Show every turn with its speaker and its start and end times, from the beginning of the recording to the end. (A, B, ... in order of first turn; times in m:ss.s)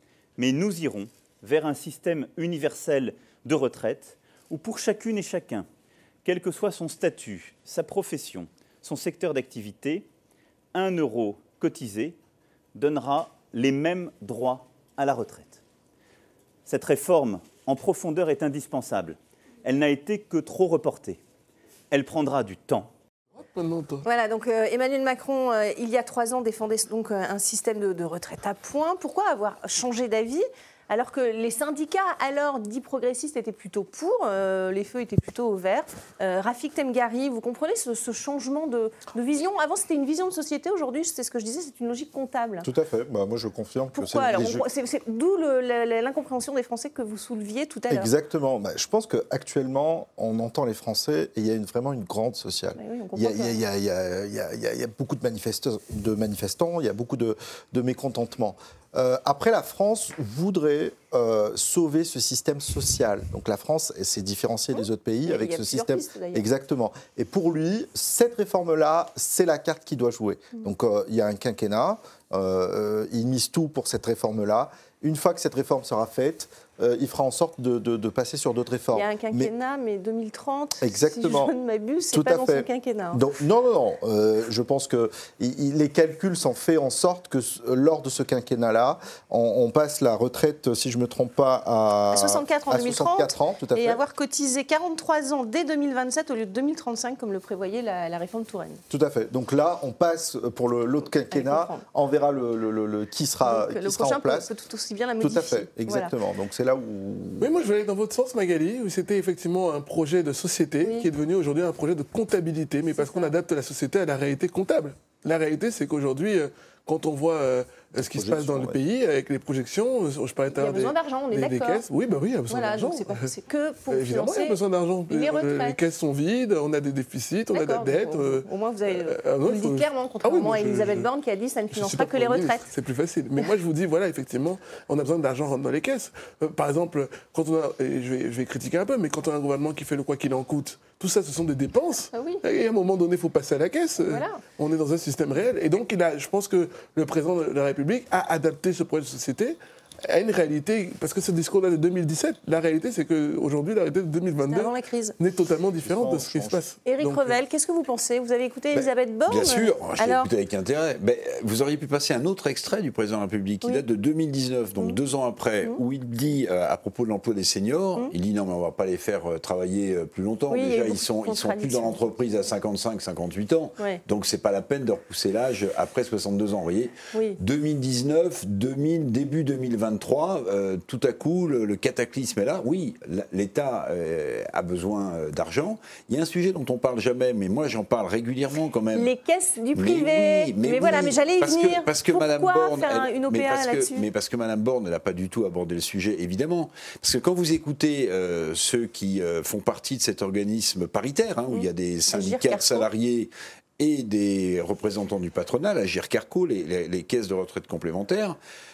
0:00.4-0:05.7 A
0:06.2-0:10.1 A
0:10.7-0:12.2 A
0:12.8-0:15.6 A
0:16.7-0:21.2 A
0:21.9-0:22.9 A
0:23.4-0:24.0 B
0:24.0-0:42.7 C
0:42.6-0:44.7 D
0:44.0-0:48.1 C
0:47.9-1:19.5 D
0:52.8-0:53.6 C
1:04.7-1:06.5 C
1:18.9-1:23.2 C
1:20.8-1:21.5 D
1:22.1-1:34.0 D
1:32.1-1:38.8 C
1:38.9-1:44.5 D
1:41.3-1:41.8 C
1:43.4-1:46.1 C
1:45.2-1:47.5 D
1:47.4-2:03.3 B
1:53.0-1:53.3 C
1:58.0-1:58.8 D
2:00.5-2:01.8 C
2:02.5-2:05.8 C
2:03.9-2:11.1 B
2:07.5-2:12.7 C
2:11.7-2:37.4 B
2:22.1-2:22.4 C
2:24.0-2:24.4 C
2:34.5-2:35.2 C
2:35.8-2:36.6 D
2:36.8-2:40.3 C
2:38.7-3:09.1 E
2:50.5-2:52.1 C
2:57.1-2:57.4 C
3:09.0-3:14.1 C
3:09.7-3:28.4 E
3:21.5-3:22.9 C